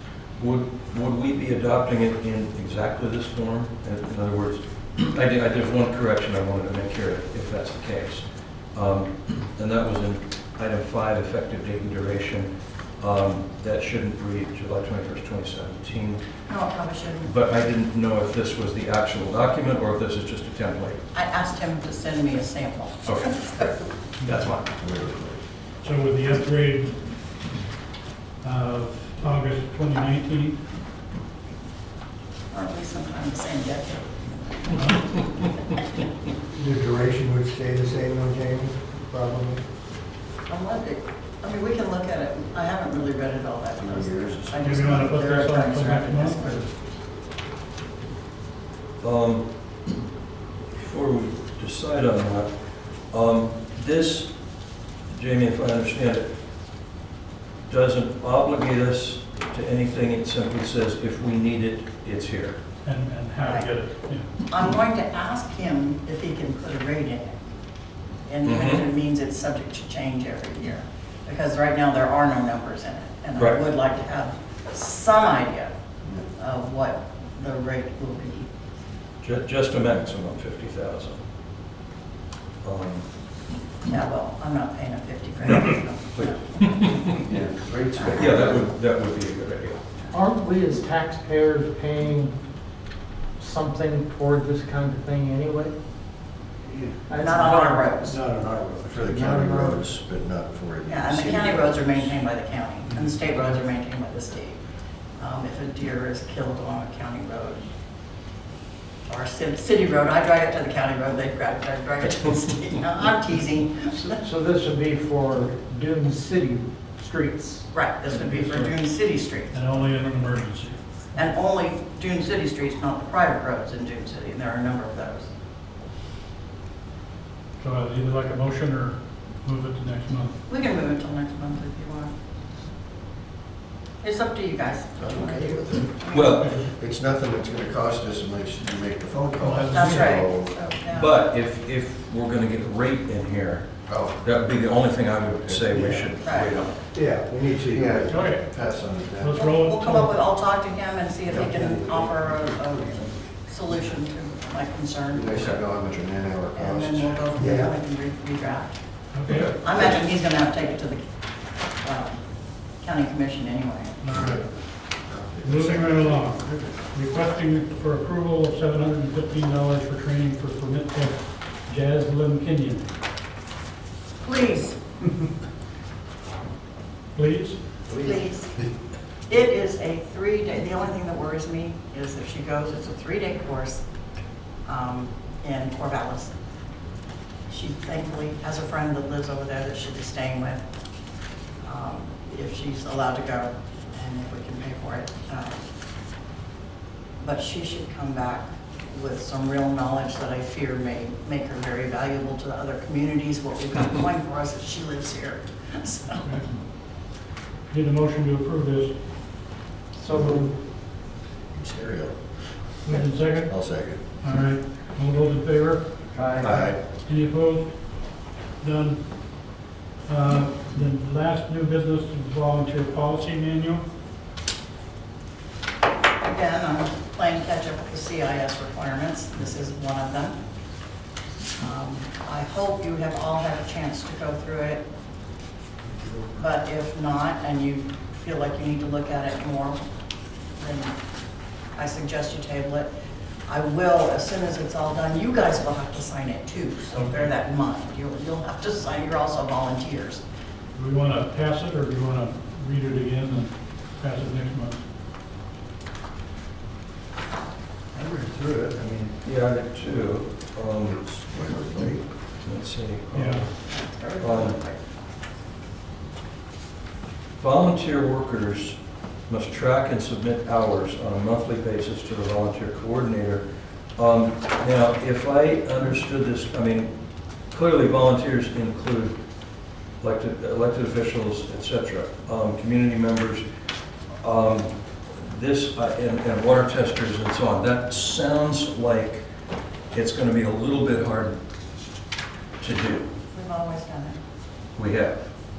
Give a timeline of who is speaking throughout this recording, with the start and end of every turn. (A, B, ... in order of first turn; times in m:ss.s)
0:00.4-0:16.2 A
0:16.5-0:17.3 B
0:17.2-0:21.0 A
0:21.1-0:23.7 B
0:24.2-0:24.7 A
0:24.8-0:25.4 C
0:25.8-0:27.0 D
0:28.4-0:30.6 D
0:32.5-0:35.3 B
0:34.7-0:35.0 D
0:36.6-0:39.6 E
0:40.5-0:46.7 B
0:43.8-0:44.6 C
0:44.0-0:44.3 E
0:44.6-0:46.7 D
0:49.0-0:49.5 A
0:50.7-0:52.5 A
0:53.1-0:54.3 A
0:55.1-0:56.3 A
0:57.7-1:02.6 A
1:02.8-1:04.3 D
1:03.4-1:03.7 B
1:04.5-1:07.4 B
1:08.3-1:15.7 B
1:08.4-1:08.8 A
1:16.4-1:18.5 B
1:19.2-1:21.2 A
1:22.6-1:23.1 A
1:23.9-1:27.1 B
1:26.2-1:27.1 A
1:27.1-1:28.7 C
1:28.0-1:28.4 B
1:28.1-1:29.8 A
1:30.1-1:32.3 F
1:33.4-1:35.7 F
1:37.1-1:38.2 F
1:37.2-1:38.2 B
1:38.2-1:39.1 E
1:38.9-1:42.1 C
1:39.1-1:39.9 F
1:40.9-1:44.6 B
1:45.2-1:47.6 B
1:49.1-1:54.2 B
1:54.2-1:57.7 F
1:57.7-1:59.6 B
1:58.1-1:58.8 D
1:59.5-2:00.8 D
2:01.1-2:05.3 B
2:07.6-2:10.4 D
2:10.5-2:12.1 B
2:14.0-2:16.3 B
2:15.0-2:16.0 C
2:16.1-2:16.5 A
2:16.2-2:16.7 D
2:16.7-2:20.5 C
2:19.4-2:20.0 E
2:19.4-2:20.2 D
2:19.7-2:21.1 B
2:20.9-2:26.8 A
2:23.9-2:24.2 C
2:25.5-2:26.6 C
2:26.2-2:26.6 B
2:26.9-2:28.4 E
2:27.7-2:29.4 C
2:28.1-2:28.4 D
2:29.2-2:30.1 D
2:29.3-2:35.6 B
2:31.3-2:31.6 C
2:31.4-2:33.1 E
2:35.1-2:37.6 C
2:36.5-2:38.8 B
2:37.3-2:37.7 E
2:39.1-2:39.5 D
2:39.3-2:39.6 A
2:39.6-2:41.0 B
2:41.8-2:42.2 B
2:42.8-2:44.0 B
2:44.0-2:44.4 D
2:45.1-2:46.1 E
2:45.4-2:52.8 D
2:45.5-2:46.4 C
2:54.2-2:54.8 B
2:57.2-2:57.6 D
2:58.0-2:58.5 B
2:59.3-3:03.8 B
3:04.7-3:06.4 B
3:07.5-3:10.6 B
3:11.6-3:15.6 B
3:17.2-3:26.2 B
3:26.1-3:26.6 D
3:27.7-3:28.9 D
3:30.0-3:30.6 F
3:30.1-3:30.4 C
3:31.5-3:32.2 C
3:32.8-3:33.6 D
3:33.3-3:34.0 C
3:34.2-3:35.9 D
3:36.1-3:36.7 F
3:36.4-3:36.8 C
3:37.0-3:37.8 D
3:38.6-3:39.1 D
3:40.1-3:43.8 D
3:46.2-3:50.4 B
3:51.6-3:54.8 B
3:56.4-3:59.8 B
4:00.6-4:00.9 B
4:01.8-4:02.9 B
4:03.5-4:10.2 B
4:06.9-4:07.3 D
4:10.8-4:14.8 D
4:18.0-4:19.0 C
4:19.2-4:21.2 A
4:21.3-4:22.0 C
4:22.4-4:23.5 A
4:23.1-4:23.5 D
4:23.7-4:24.8 B
4:24.2-4:24.6 A
4:27.4-4:28.8 A
4:29.3-4:33.4 A
4:34.0-4:36.9 A
4:37.5-4:39.2 A
4:40.0-4:43.4 A
4:44.2-4:49.2 A
4:49.9-4:51.4 A
4:52.6-4:53.1 A
4:53.3-4:54.2 B
4:54.8-4:55.2 A